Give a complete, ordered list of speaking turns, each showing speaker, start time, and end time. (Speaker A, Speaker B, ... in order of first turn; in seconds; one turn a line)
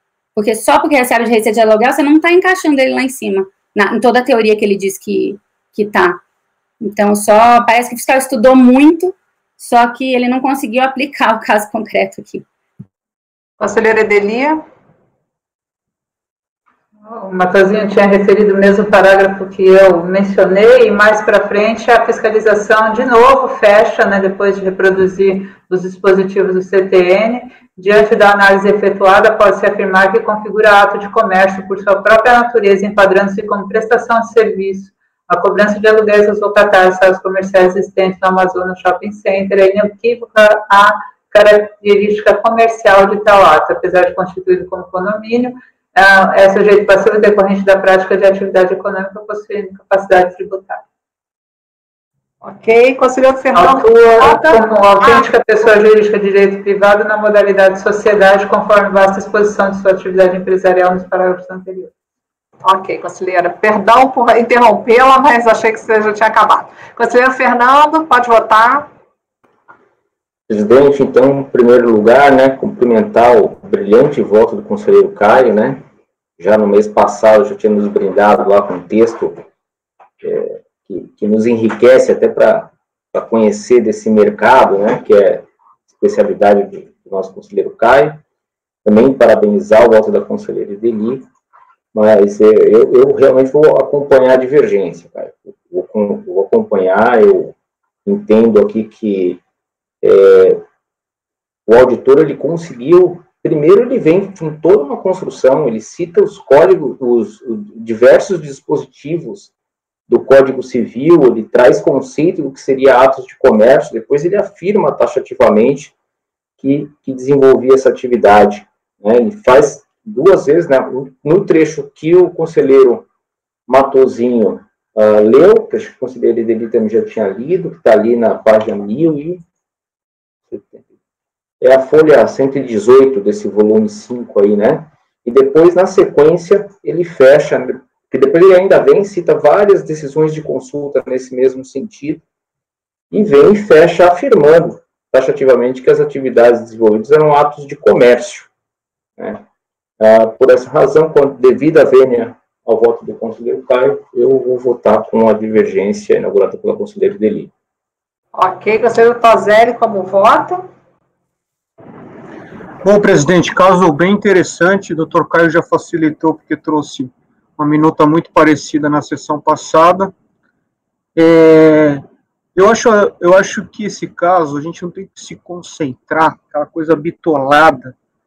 Speaker A: 0.4-6.2
Speaker A: 6.8-12.4
Speaker B: 13.6-14.6
Speaker C: 17.0-50.8
Speaker B: 52.4-55.3
Speaker C: 53.5-61.9
Speaker B: 62.6-68.9
Speaker D: 70.5-75.8
Speaker D: 76.4-79.4
Speaker D: 80.2-88.2
Speaker D: 88.8-91.2
Speaker D: 91.9-97.5
Speaker D: 98.1-99.4
Speaker D: 100.0-100.6
Speaker D: 101.7-109.5
Speaker D: 110.1-115.9
Speaker D: 116.6-123.0
Speaker D: 123.7-129.4
Speaker D: 130.5-130.8
Speaker D: 131.6-142.2
Speaker D: 143.1-148.5
Speaker D: 150.0-157.5
Speaker B: 158.3-160.6
Speaker E: 162.8-170.1
Speaker E: 171.2-172.0
Speaker E: 172.6-177.9